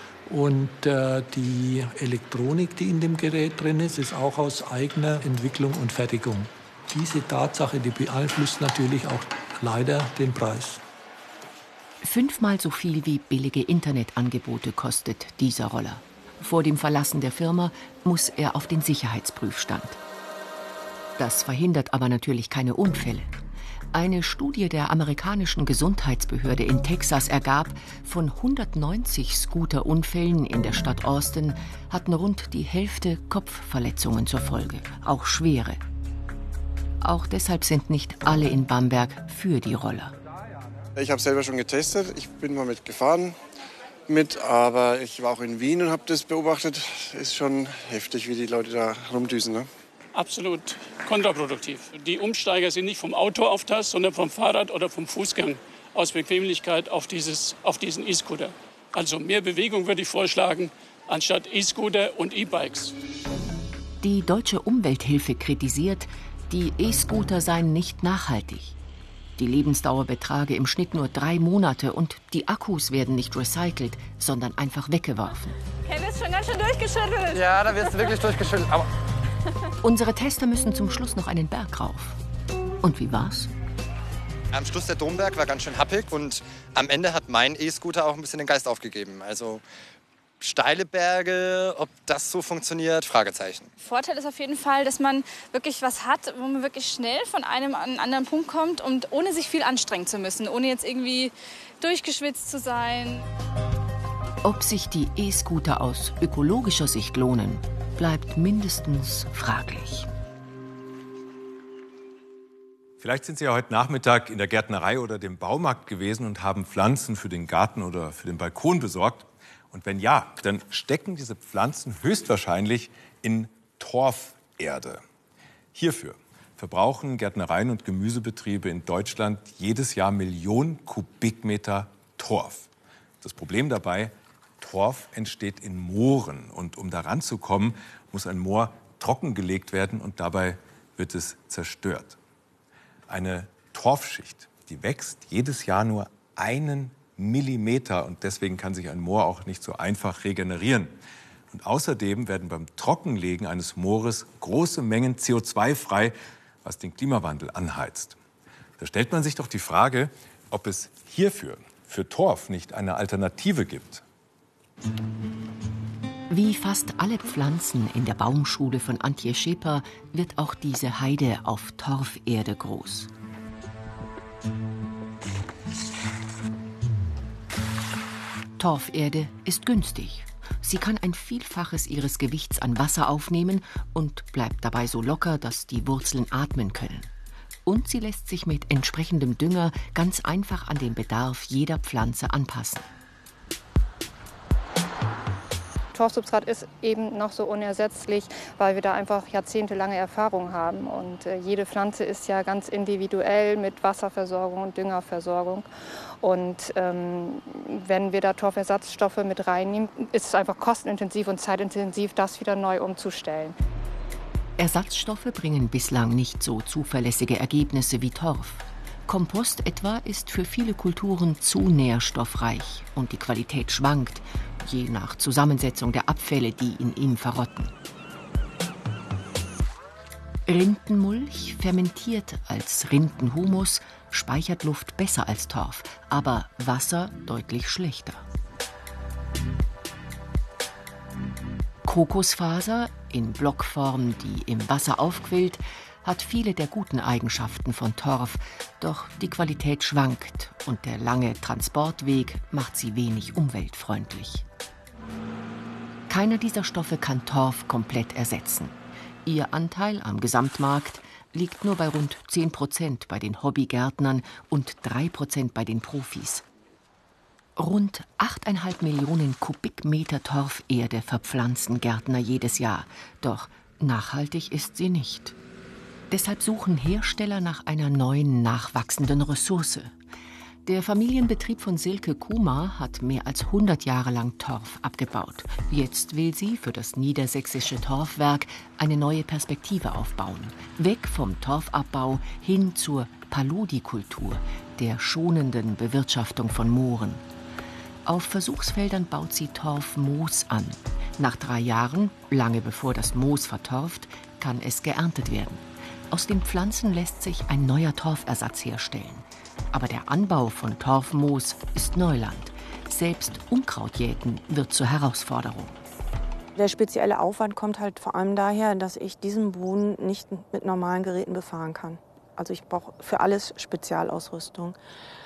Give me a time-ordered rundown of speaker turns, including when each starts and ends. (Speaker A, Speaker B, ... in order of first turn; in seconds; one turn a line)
Speaker A: 0.3-10.8
Speaker B: 12.0-20.0
Speaker B: 21.2-23.4
Speaker B: 23.9-35.8
Speaker B: 37.0-40.1
Speaker C: 41.0-43.4
Speaker C: 44.1-49.7
Speaker D: 50.1-62.9
Speaker B: 64.0-68.8
Speaker B: 69.4-75.6
Speaker E: 75.8-78.2
Speaker F: 77.4-78.8
Speaker B: 79.8-82.2
Speaker B: 82.8-83.5
Speaker F: 84.5-89.6
Speaker F: 90.4-93.7
Speaker E: 93.8-103.2
Speaker B: 104.4-110.1
Speaker G: 113.0-125.0
Speaker G: 125.8-132.7
Speaker G: 133.2-142.2
Speaker G: 143.1-151.0
Speaker G: 151.5-158.2
Speaker G: 158.8-164.0
Speaker B: 166.3-173.1
Speaker B: 178.6-187.1
Speaker B: 187.7-192.9
Speaker H: 195.9-205.7
Speaker H: 206.2-213.6
Speaker B: 214.6-227.7
Speaker B: 230.5-238.2
Speaker B: 241.9-254.4
Speaker B: 256.1-266.4
Speaker B: 267.6-275.4
Speaker B: 276.1-279.9
Speaker B: 280.7-297.2
Speaker B: 298.1-315.8
Speaker I: 316.6-324.8